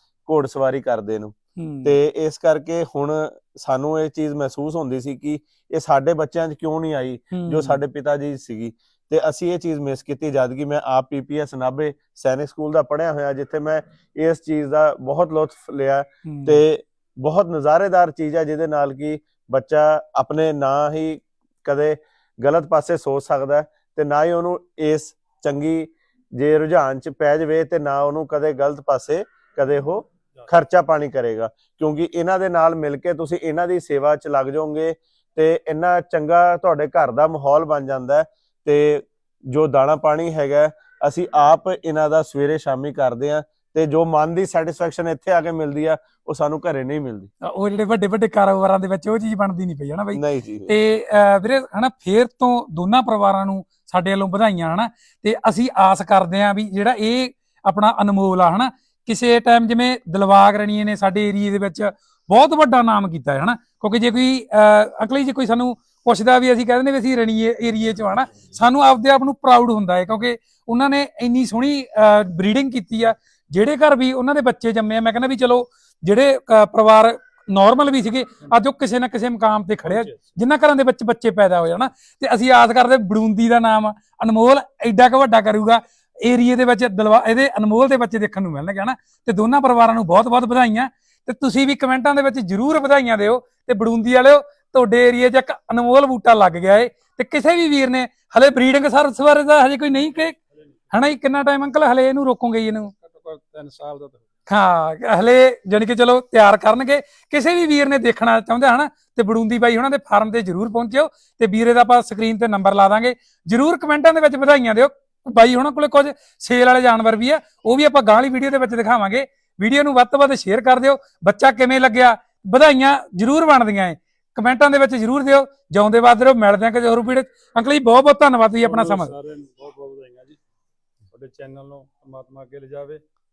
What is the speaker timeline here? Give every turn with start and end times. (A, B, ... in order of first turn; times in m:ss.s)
0:00.2-0:01.3 A
0:01.6-0:02.0 B
0:01.8-0:47.3 A
0:07.3-0:07.8 B
0:16.2-0:16.6 B
0:47.4-1:40.4 B
0:50.1-0:50.7 A
1:19.8-1:20.3 C
1:40.9-1:42.9 B
1:43.0-1:44.2 C
1:44.5-2:09.1 B
2:08.6-2:10.4 C
2:11.1-2:13.0 C